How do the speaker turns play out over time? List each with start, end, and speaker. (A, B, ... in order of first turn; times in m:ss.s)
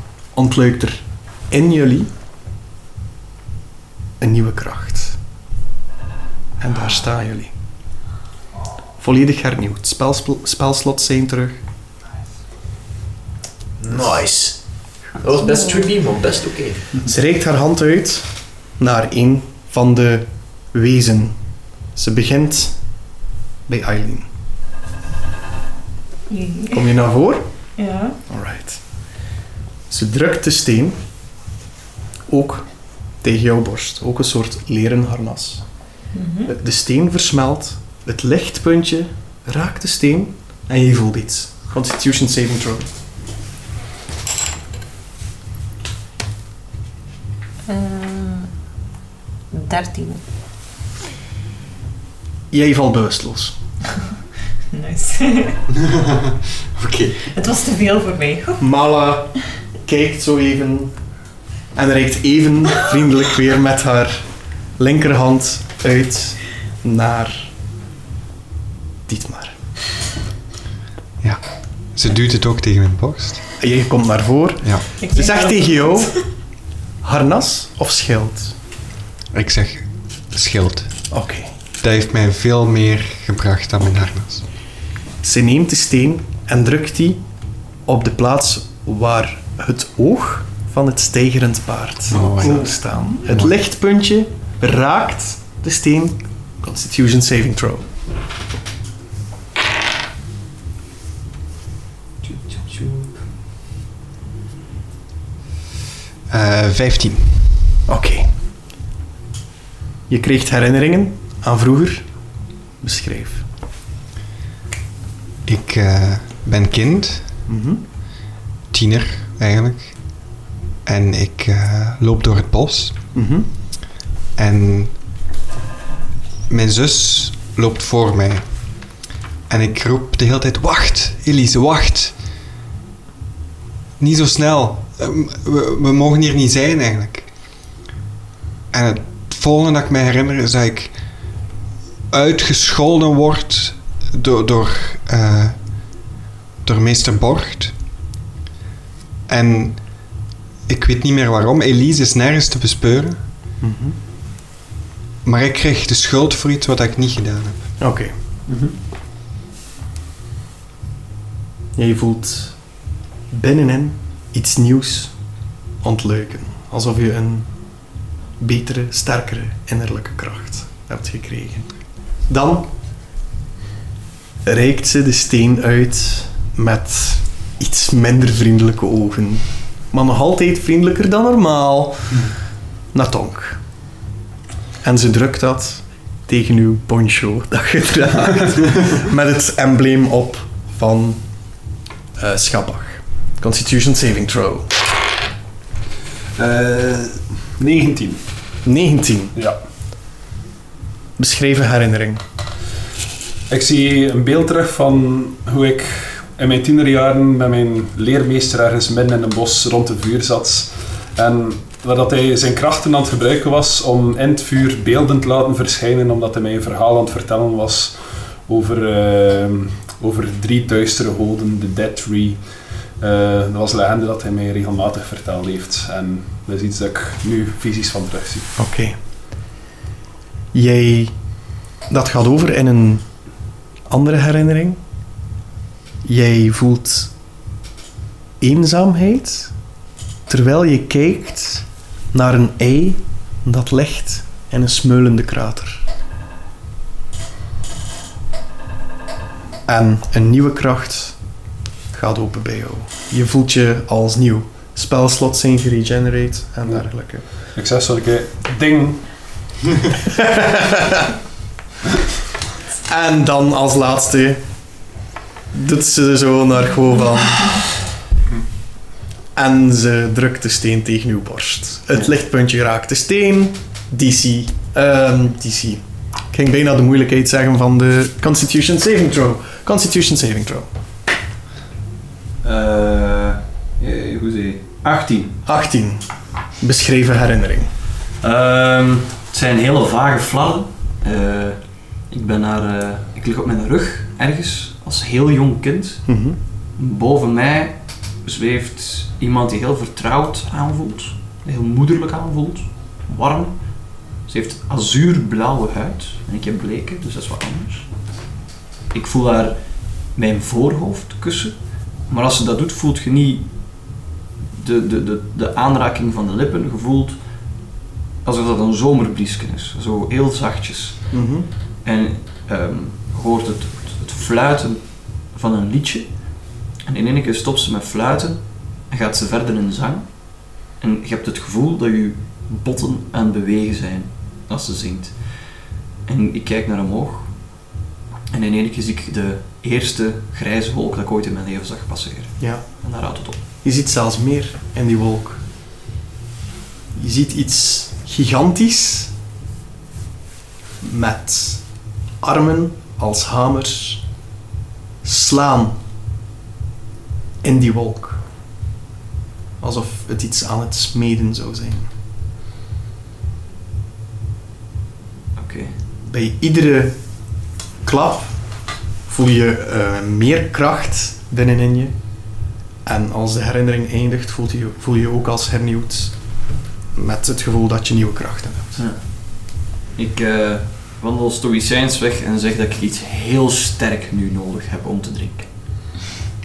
0:00.3-0:02.1 A
0:04.2-0:05.2 A
0:06.6-0:07.5 A
0:09.0-0:11.6 A
0:13.8-0:14.6 B
0:15.2-0:16.9 B
0:17.0-0:18.2 A
0:18.8-0:21.3 A
0:22.0-0:22.7 A
0:23.7-0:24.3 A
0:26.3-0:26.9 C
0:26.7-0:27.4 A
0:27.8-0:28.2 C
0:28.3-0:28.8 A
0:29.9-0:31.0 A
0:32.3-0:32.6 A
0:33.2-0:35.6 A
0:36.1-0:36.5 C
0:36.5-0:42.9 A
0:47.6-0:48.5 C
0:49.5-0:50.2 C
0:52.5-0:53.5 A
0:54.7-0:55.6 C
0:55.8-0:57.2 D
0:57.3-0:58.6 C
0:58.6-1:00.9 A
1:01.7-1:04.2 A
1:04.8-1:07.5 A
1:09.1-1:09.5 A
1:11.9-1:13.4 D
1:13.6-1:16.2 A
1:15.0-1:16.2 C
1:17.0-1:18.5 A
1:19.3-1:20.9 D
1:21.1-1:21.5 A
1:21.8-1:24.4 D
1:25.2-1:27.2 A
1:27.9-1:37.8 A
1:32.1-1:32.7 D
1:42.2-1:43.1 E
1:46.3-1:47.6 D
1:47.9-1:48.3 A
1:50.1-1:52.0 A
1:52.8-1:53.4 A
1:55.4-1:57.2 D
1:57.5-1:57.8 A
1:58.7-2:00.0 D
2:00.8-2:03.0 D
2:03.1-2:03.5 A
2:04.4-2:05.0 D
2:06.5-2:08.4 D
2:09.5-2:12.2 D
2:14.0-2:17.3 D
2:18.7-2:20.9 D
2:22.1-2:25.6 D
2:26.6-2:27.7 D
2:29.3-2:29.8 D
2:30.7-2:33.2 D
2:33.6-2:34.0 A
2:35.2-2:37.6 D
2:37.8-2:38.1 A
2:38.5-2:38.7 F
2:41.8-2:42.5 A
2:43.3-2:45.1 A
2:45.8-2:47.5 A
2:48.4-2:51.7 A
2:52.3-2:52.7 A
2:54.4-3:02.3 A
3:02.9-3:03.6 A
3:04.8-3:11.2 A
3:12.2-3:14.7 A
3:16.4-3:18.2 F
3:18.6-3:19.3 A
3:21.2-3:22.2 A
3:23.5-3:42.4 F
3:43.0-3:48.5 F
3:48.6-3:48.9 A
3:50.5-3:51.1 A
3:51.9-3:53.0 A
3:53.9-3:54.8 A
3:56.0-3:57.1 A
3:58.4-3:59.5 A
4:00.3-4:05.8 A
4:09.7-4:11.2 A
4:11.9-4:17.2 A
4:17.5-4:19.0 F
4:20.1-4:21.0 A
4:22.9-4:24.4 A
4:25.5-4:27.7 A
4:29.4-4:40.7 A
4:42.4-4:45.4 E
4:45.4-4:46.0 A
4:46.6-4:47.7 A
4:48.2-4:51.6 E
4:52.1-4:56.0 E
4:56.1-4:56.4 A
4:56.8-5:03.7 E
5:04.2-5:07.9 E
5:08.9-5:09.6 E
5:10.1-5:11.6 E
5:12.1-5:13.5 E
5:14.6-5:17.2 E
5:18.2-5:21.2 E
5:21.1-5:21.5 A
5:21.8-5:35.1 E
5:36.0-5:37.4 E
5:38.3-5:43.4 E
5:42.4-5:42.6 A
5:43.6-5:45.4 A
5:46.9-5:49.1 A
5:50.8-5:51.6 A
5:52.2-5:54.0 A
5:55.0-5:55.8 A
5:57.4-5:58.2 A
5:59.6-6:01.9 A
6:05.4-6:05.7 E
6:06.0-6:07.0 A
6:07.8-6:08.3 A
6:09.1-6:11.9 A
6:12.8-6:16.1 A
6:17.0-6:18.8 A
6:18.8-6:25.5 E